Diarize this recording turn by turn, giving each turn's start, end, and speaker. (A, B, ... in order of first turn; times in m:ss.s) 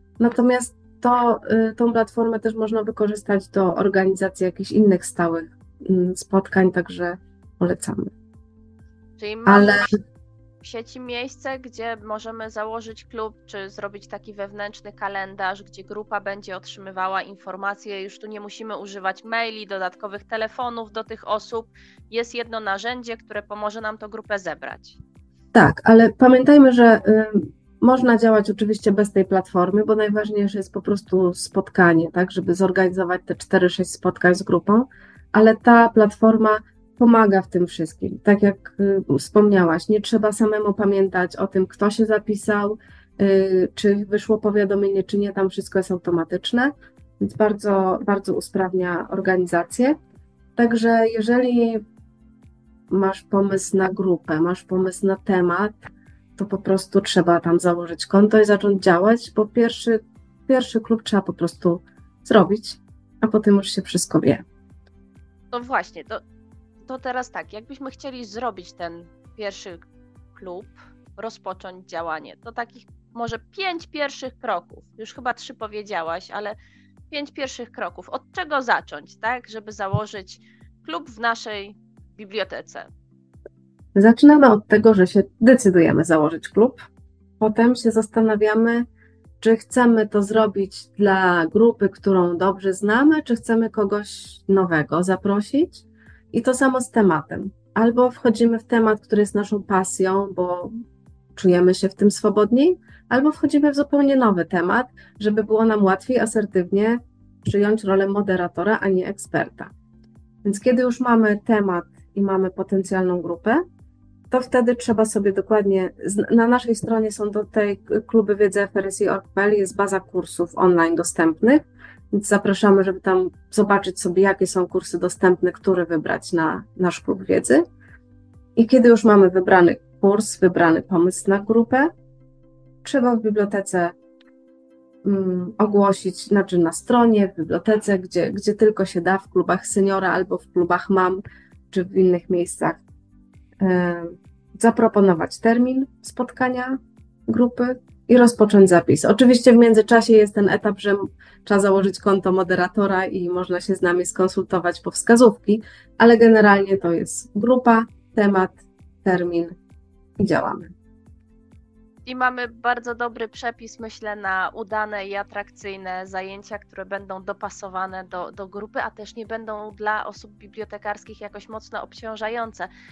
0:00.2-0:08.1 A
0:09.2-0:09.9 B
0:09.5-0:09.9 A
0:10.6-0:25.0 B
0:25.5-0:50.0 A
0:50.6-0:51.8 A
0:52.9-1:04.4 A
1:05.5-1:06.2 B
1:06.8-1:09.8 B
1:10.4-1:16.6 B
1:17.1-1:22.9 B
1:24.0-1:26.8 A
1:27.4-1:28.9 A
1:29.4-1:40.7 A
1:41.4-1:49.7 A
1:50.4-1:53.6 A
1:54.3-2:07.6 A
2:08.6-2:11.9 A
2:12.8-2:13.9 A
2:15.0-2:22.8 A
2:23.6-2:39.6 A
2:40.2-2:40.7 A
2:42.0-2:52.7 B